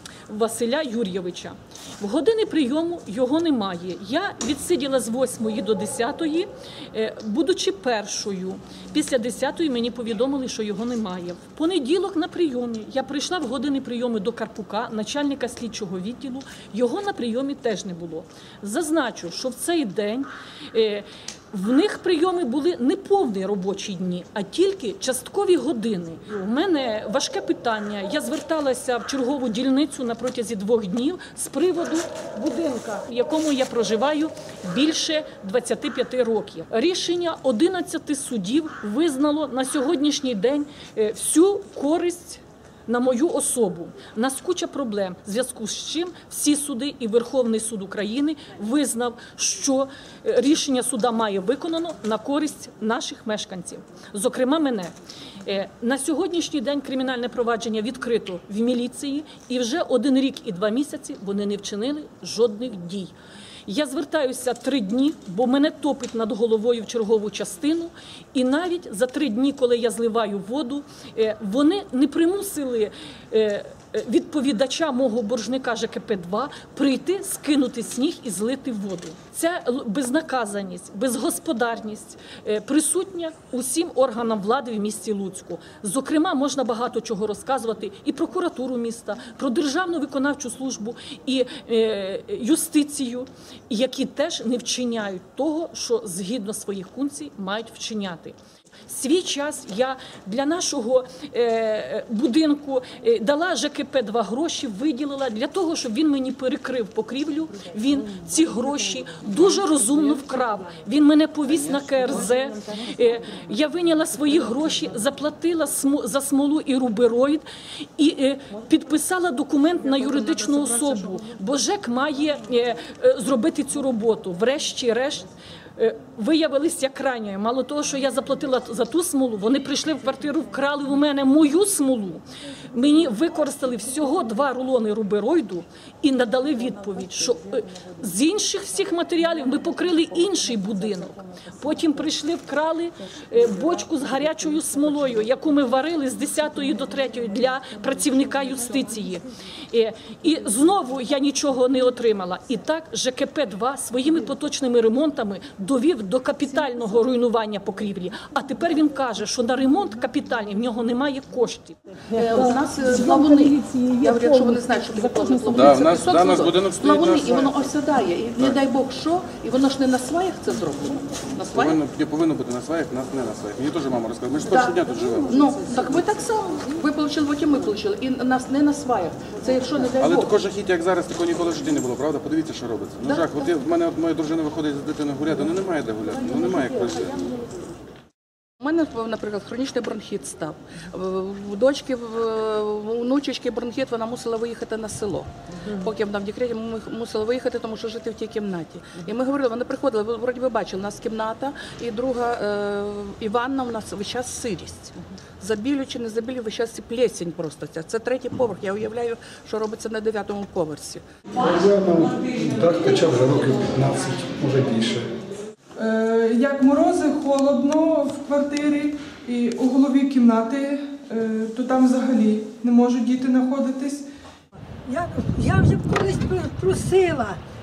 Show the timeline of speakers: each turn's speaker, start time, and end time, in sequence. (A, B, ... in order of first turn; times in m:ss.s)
0:00.3-1:03.1 A
1:03.7-1:57.4 A
1:58.0-2:41.8 A
2:42.1-2:51.8 B
2:42.3-2:44.1 A
2:45.5-2:47.7 C
2:51.5-2:55.4 C
2:54.5-3:00.4 B
3:00.0-3:07.5 C
3:03.0-3:03.3 B
3:08.6-3:31.0 B
3:31.4-3:35.1 D
3:35.8-3:44.1 E
3:44.9-3:47.4 F